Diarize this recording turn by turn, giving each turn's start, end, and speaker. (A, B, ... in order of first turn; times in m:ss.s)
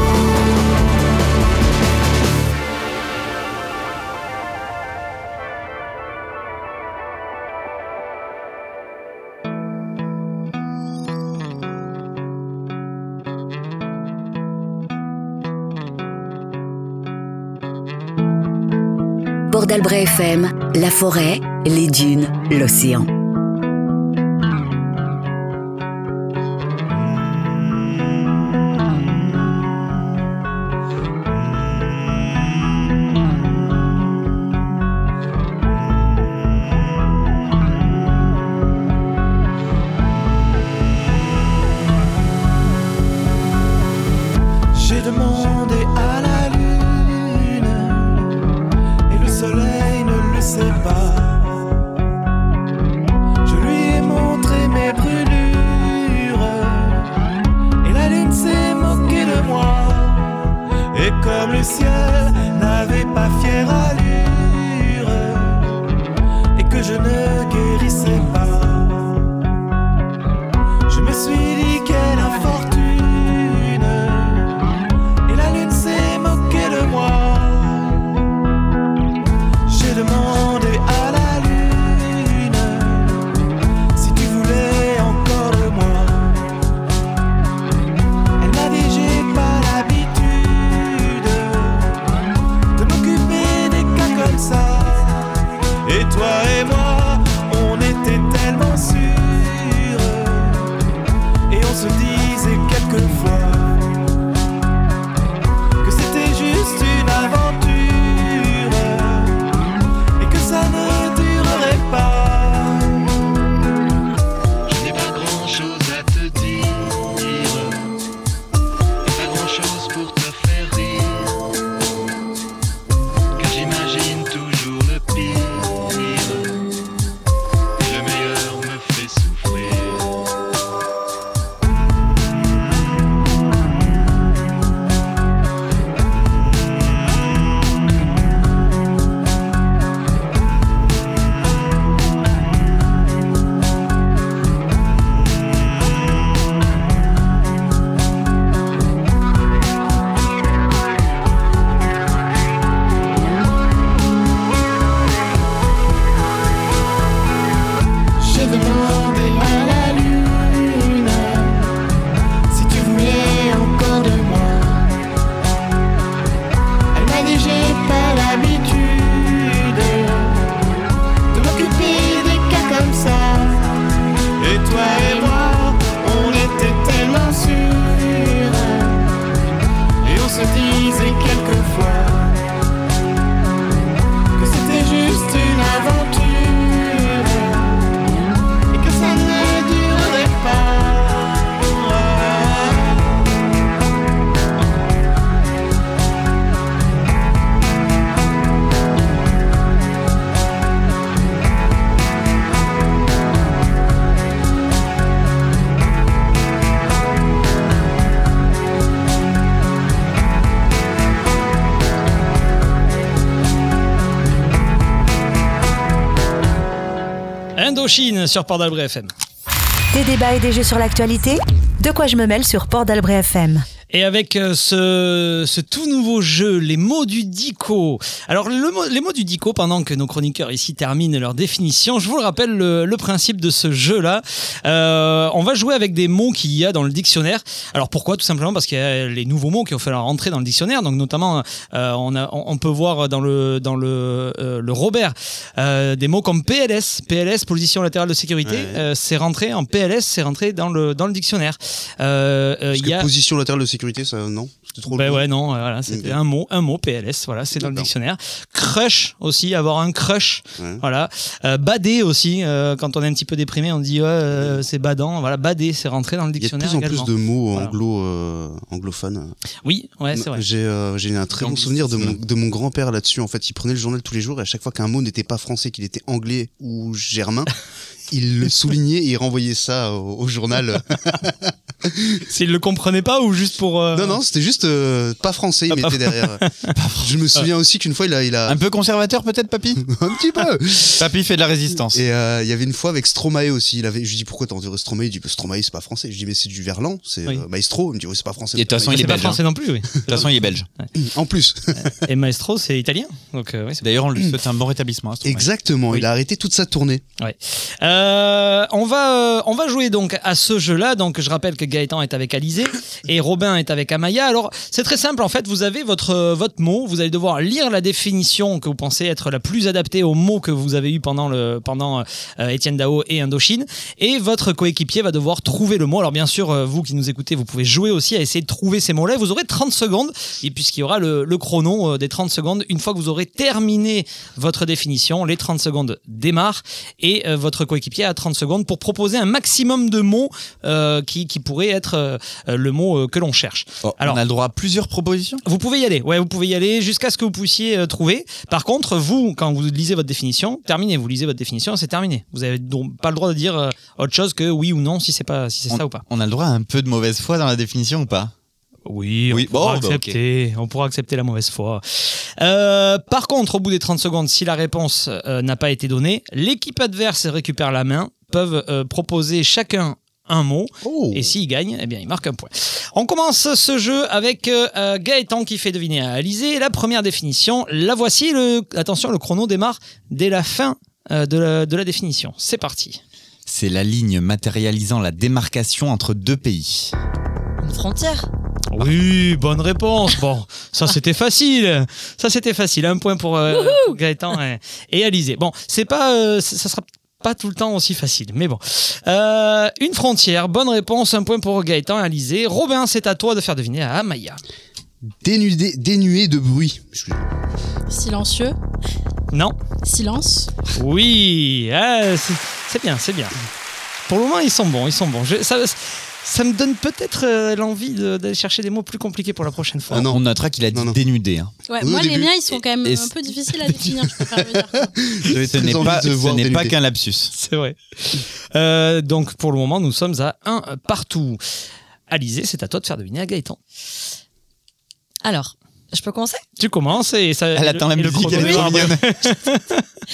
0:19.5-0:23.1 A
0:44.7-0:48.3 B
0:49.1-0:51.8 B
0:53.4-0:57.1 B
0:57.8-1:00.4 B
1:00.9-1:05.8 B
1:06.6-1:09.3 B
1:10.9-1:14.6 B
1:15.3-1:18.1 B
1:19.7-1:23.3 B
1:24.0-1:26.5 B
1:28.4-1:32.0 B
1:32.8-1:40.7 B
1:41.5-1:44.0 B
1:45.8-1:49.5 B
1:50.2-1:53.1 B
1:54.7-1:57.9 B
1:59.0-2:01.4 B
2:03.4-2:06.5 B
2:07.8-2:10.1 B
2:38.2-2:41.7 B
2:42.5-2:44.9 B
2:46.9-2:50.5 B
2:51.3-2:53.6 B
2:54.4-2:59.1 B
3:00.0-3:02.4 B
3:04.4-3:07.9 B
3:08.7-3:13.3 B
3:37.6-3:39.1 C
3:39.9-3:43.6 D
3:43.9-4:13.1 C
4:08.4-4:08.8 E
4:12.7-4:15.3 E
4:14.9-4:27.7 C
4:15.9-4:16.2 E
4:17.6-4:17.9 E
4:20.6-4:20.8 E
4:24.3-4:24.6 E
4:26.4-4:29.4 E
4:29.6-4:30.4 C
4:30.1-4:37.5 E
4:38.1-4:42.2 E
4:42.3-4:44.2 C
4:43.9-4:46.4 E
4:45.7-4:46.5 C
4:46.8-4:47.2 F
4:47.0-4:48.6 E
4:48.5-4:49.8 F
4:49.8-4:51.0 E
4:50.9-4:52.0 F
4:51.9-4:59.4 E
4:58.6-4:59.4 F
4:58.9-5:00.9 C
5:00.1-5:00.7 F
5:01.0-5:02.0 E
5:01.8-5:03.8 C
5:03.8-5:05.5 F
5:05.2-5:07.0 E
5:07.2-5:44.2 C
5:43.8-5:45.4 F
5:45.4-5:56.0 C
5:55.7-5:58.3 F
5:58.9-6:23.0 C
5:59.3-6:00.2 F
6:10.8-6:11.3 E
6:23.5-6:26.9 F
6:27.6-6:28.3 G
6:28.7-6:44.4 C
6:33.5-6:34.0 G
6:45.2-6:47.3 E
6:47.9-6:48.6 H
6:49.3-6:49.6 C
6:49.8-6:50.5 H
6:50.8-6:53.4 C
6:54.1-7:00.1 C
6:59.9-7:01.0 E
7:00.1-7:01.5 F
7:01.7-7:05.0 H
7:01.8-7:02.3 E
7:02.8-7:03.1 F
7:04.9-7:06.8 E
7:05.5-7:07.3 F
7:07.3-7:11.4 C
7:12.1-7:13.6 C
7:15.2-7:16.4 G
7:16.6-7:19.8 C
7:17.6-7:19.1 F